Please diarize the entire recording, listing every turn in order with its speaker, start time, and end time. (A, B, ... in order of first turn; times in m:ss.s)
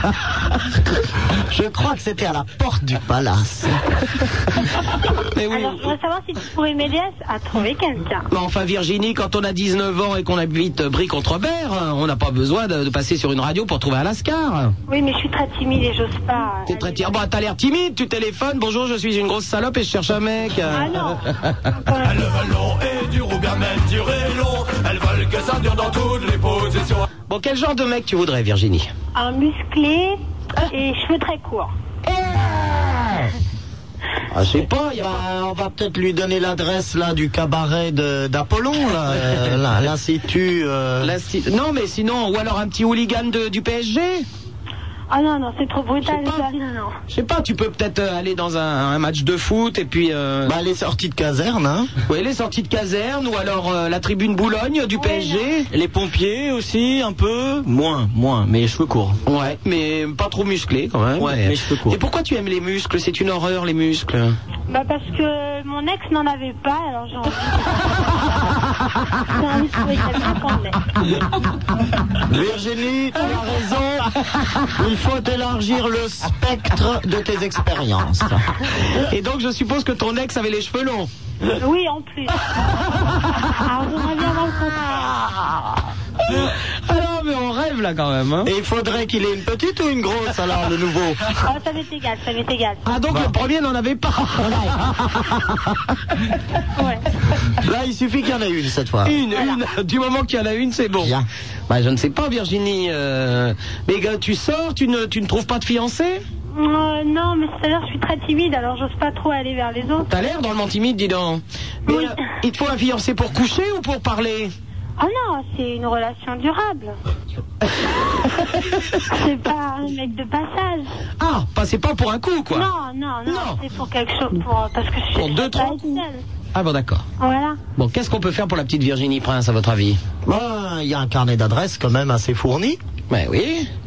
0:01.5-0:03.7 A
0:05.5-0:08.2 B
0:08.6-0:14.6 C
0:14.9-0:17.2 B
0:16.8-0:20.7 C
0:20.7-0:22.4 B
0:22.0-0:27.0 D
0:27.4-0:28.8 C
0:29.1-0:31.7 B
0:34.4-0:35.0 C
0:35.0-0:41.1 A
0:41.1-0:44.1 C
0:45.1-0:47.0 B
0:47.2-0:50.5 C
0:50.4-0:51.9 A
0:52.1-0:55.6 C
0:54.9-0:55.5 B
0:55.7-0:59.2 E
0:59.3-1:04.2 C
1:01.2-1:02.0 E
1:04.7-1:08.2 B
1:09.3-1:10.8 B
1:12.2-1:14.1 A
1:13.2-1:13.4 B
1:14.8-1:18.4 A
1:19.2-1:21.0 C
1:21.6-1:22.3 B
1:23.6-1:25.1 B
1:27.1-1:27.7 C
1:28.4-1:31.2 A
1:31.4-1:32.8 B
1:33.1-1:34.5 C
1:36.8-1:37.0 B
1:37.6-1:39.2 A
1:39.1-1:41.1 C
1:39.3-1:39.6 B
1:41.0-1:41.2 A
1:41.7-1:46.1 C
1:46.5-1:50.1 B
1:50.3-1:51.4 C
1:51.9-1:52.2 B
1:51.9-1:54.4 C
1:55.0-1:57.0 B
1:59.1-2:00.9 B
2:01.2-2:02.6 C
2:02.5-2:06.2 B
2:05.2-2:05.9 C
2:06.6-2:07.0 C
2:07.2-2:07.6 B
2:07.8-2:09.9 C
2:10.2-2:12.8 A
2:13.2-2:13.5 C